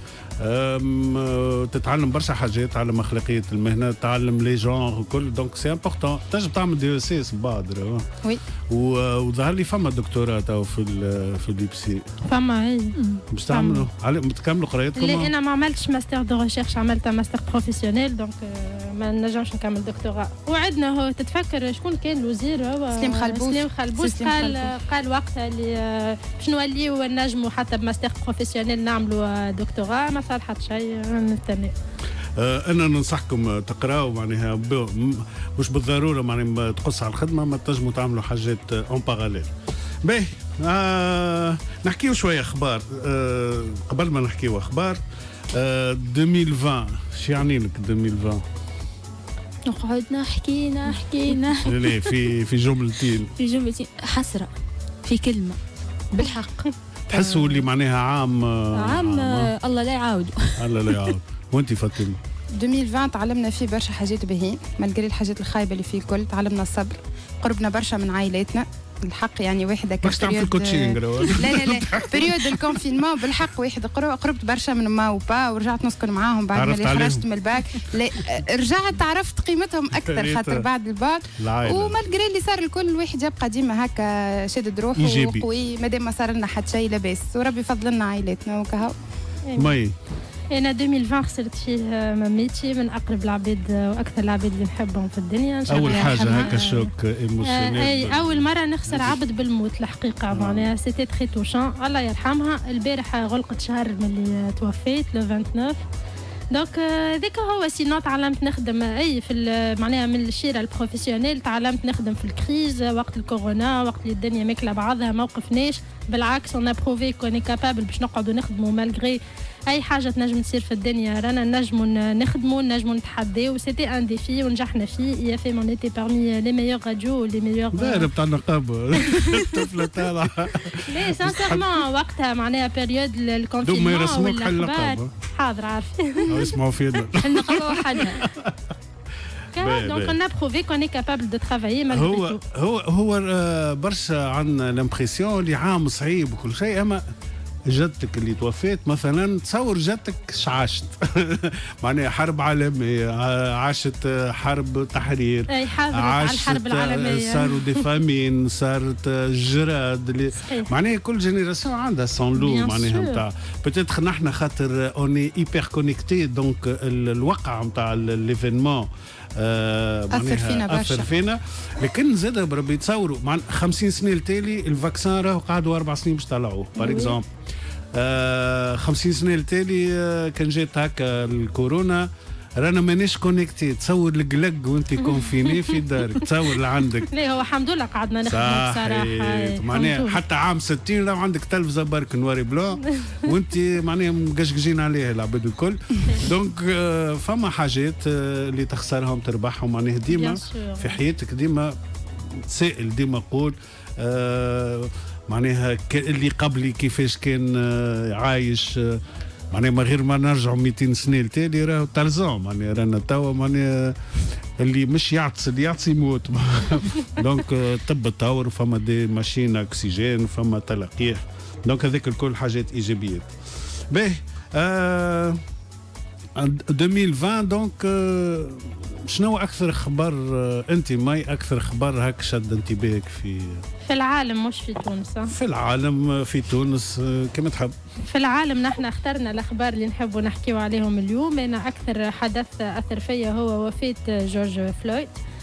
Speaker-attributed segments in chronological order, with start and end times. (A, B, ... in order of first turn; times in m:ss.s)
0:00.4-0:08.1 A
0:08.7-0:12.0 A
0:12.3-0:12.9 B
0:13.3-0:15.3 A
0:13.5-0:13.8 B
0:15.0-0:31.7 B
0:22.9-0:24.7 C
0:32.4-0:39.5 A
0:40.0-0:45.0 A
0:45.5-0:48.4 A
0:49.7-0:52.1 D
0:51.6-0:53.3 A
0:53.4-0:54.5 D
0:55.0-0:55.6 D
0:56.1-0:56.5 D
0:56.2-0:56.7 B
0:57.1-0:59.5 A
0:57.1-0:57.7 D
0:58.7-1:01.0 D
1:00.6-1:02.2 A
1:02.5-1:28.9 C
1:10.0-1:12.8 A
1:16.5-1:17.2 A
1:20.0-1:20.6 A
1:21.4-1:22.0 A
1:25.0-1:25.4 A
1:29.6-1:29.9 A
1:30.5-1:36.9 B
1:35.7-1:39.2 A
1:37.4-1:45.8 B
1:40.3-1:40.7 A
1:46.5-2:08.1 B
2:07.7-2:11.7 A
2:10.9-2:16.4 B
2:13.6-2:15.1 A
2:16.3-2:18.6 A
2:17.2-2:18.2 D
2:19.6-2:20.2 A
2:19.6-2:22.4 B
2:21.9-2:27.0 A
2:27.7-2:57.3 A
2:35.5-2:37.8 B
2:40.4-2:40.7 B
2:42.4-2:43.2 B
2:50.1-2:51.1 C
2:56.8-2:57.1 B
2:57.9-3:07.1 A
3:05.1-3:05.8 B
3:07.1-3:10.2 B
3:08.2-3:21.8 A
3:20.1-3:21.0 B
3:22.3-3:29.0 A
3:29.5-3:34.0 A
3:34.6-3:43.3 A
3:43.9-3:45.4 A
3:46.4-3:53.6 A
3:53.8-3:55.3 B
3:55.3-3:57.7 A
3:58.1-4:05.2 B